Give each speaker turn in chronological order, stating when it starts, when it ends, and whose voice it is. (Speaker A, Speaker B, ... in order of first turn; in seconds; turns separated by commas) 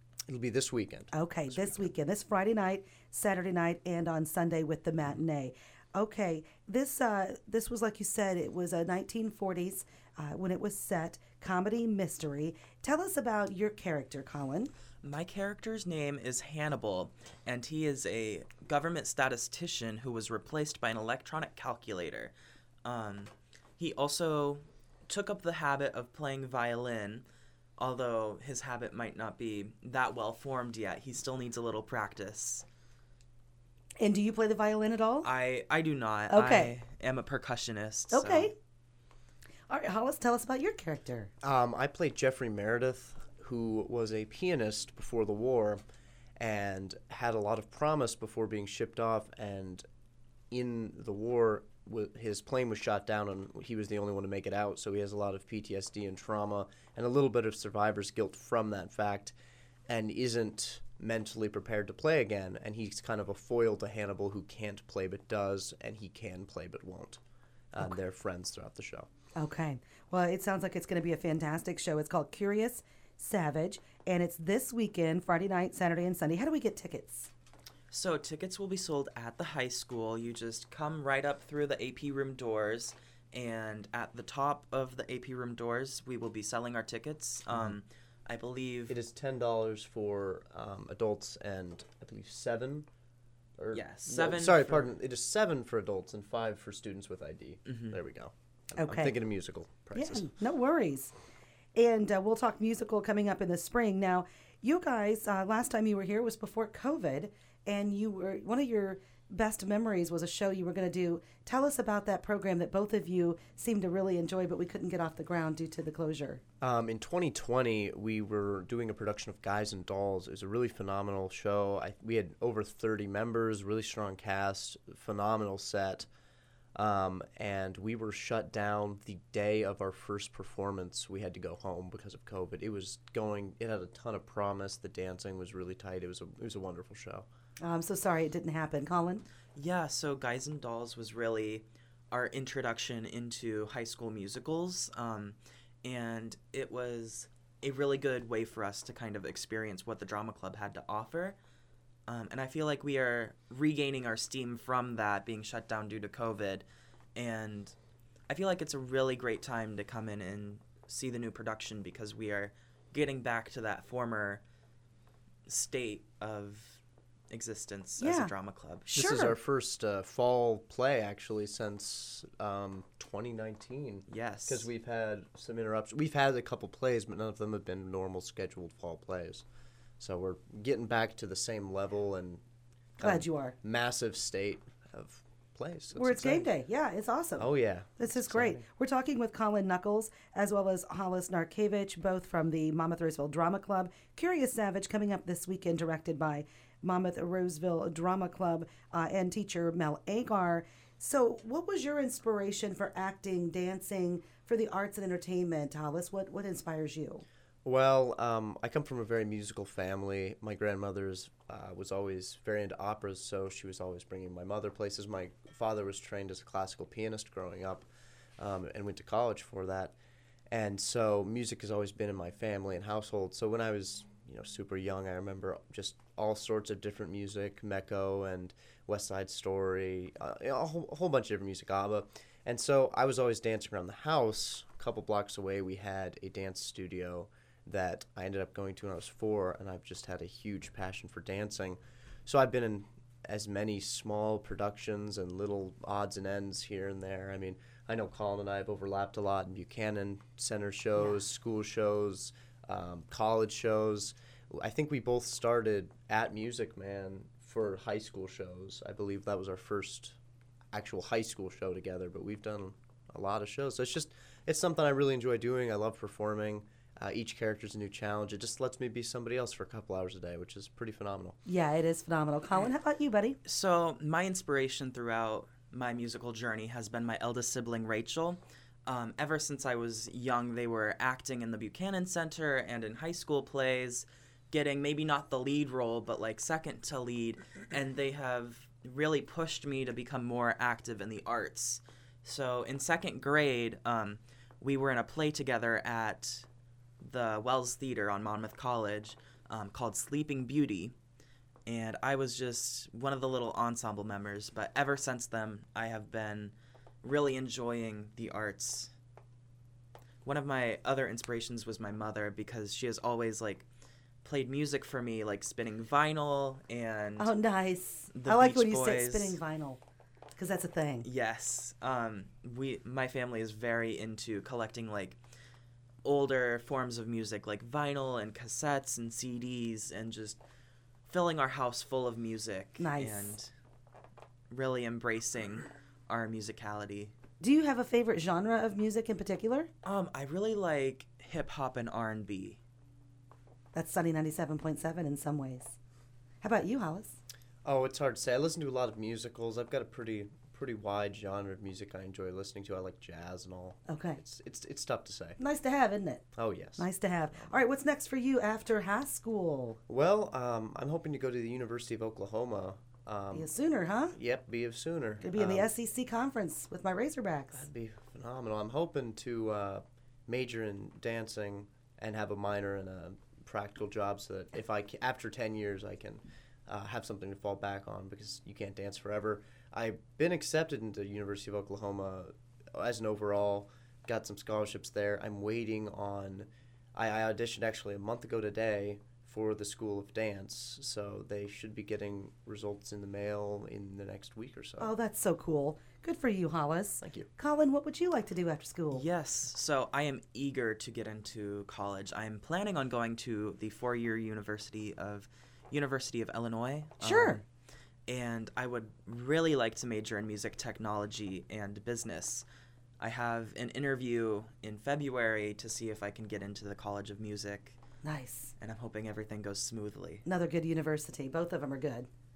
Speaker A: 0.3-1.9, Speaker B: 1.1-14.7, Speaker C: 15.0-22.3, Speaker C: 22.8-27.2, Speaker C: 27.8-32.6, Speaker B: 34.0-35.3, Speaker C: 35.2-38.5, Speaker B: 36.3-36.7, Speaker B: 38.1-38.5, Speaker B: 39.7-41.3, Speaker A: 41.4-45.8, Speaker A: 46.4-49.8, Speaker A: 50.5-59.3, Speaker A: 59.9-67.2, Speaker A: 67.7-69.1, Speaker B: 69.3-77.3, Speaker C: 77.9-89.0, Speaker A: 88.9-92.9, Speaker A: 93.6-100.3, Speaker C: 93.7-94.9, Speaker C: 97.7-98.0, Speaker B: 98.8-99.1, Speaker B: 99.9-101.1, Speaker B: 101.7-116.4, Speaker A: 116.6-126.1, Speaker A: 126.7-137.2, Speaker B: 137.6-139.2, Speaker C: 139.5-151.4, Speaker C: 152.1-157.7, Speaker C: 158.3-164.4, Speaker C: 165.5-168.9, Speaker B: 168.0-168.3, Speaker B: 168.9-169.4, Speaker A: 168.9-179.4, Speaker C: 174.1-174.7, Speaker A: 180.0-182.4, Speaker A: 183.0-186.5, Speaker B: 183.0-183.5, Speaker B: 185.9-207.2, Speaker A: 187.4-188.6, Speaker A: 207.6-220.0, Speaker A: 220.5-260.2, Speaker A: 260.7-271.4, Speaker B: 271.4-273.4, Speaker C: 273.4-296.5, Speaker C: 297.0-300.9, Speaker C: 301.6-308.9, Speaker C: 310.2-313.6, Speaker C: 314.2-317.3, Speaker B: 317.2-319.8, Speaker C: 318.1-319.4, Speaker B: 320.4-321.1, Speaker C: 321.0-325.2, Speaker C: 326.0-330.4, Speaker C: 331.1-333.5, Speaker B: 332.8-333.4, Speaker C: 334.5-337.1, Speaker B: 337.4-339.7, Speaker C: 339.8-342.6, Speaker B: 343.7-345.8, Speaker B: 346.4-347.2, Speaker A: 347.6-355.4, Speaker B: 353.9-354.2, Speaker B: 355.4-356.2, Speaker A: 356.4-356.9, Speaker B: 356.8-359.8, Speaker A: 359.9-363.5, Speaker B: 363.3-364.1, Speaker A: 364.1-365.7, Speaker B: 365.2-367.7, Speaker A: 367.5-394.9, Speaker B: 394.8-399.0, Speaker A: 397.0-397.3, Speaker C: 398.9-407.4, Speaker B: 407.0-407.4, Speaker C: 408.1-412.4, Speaker C: 413.0-417.8, Speaker B: 418.0-418.5, Speaker C: 418.6-420.2, Speaker B: 420.2-422.1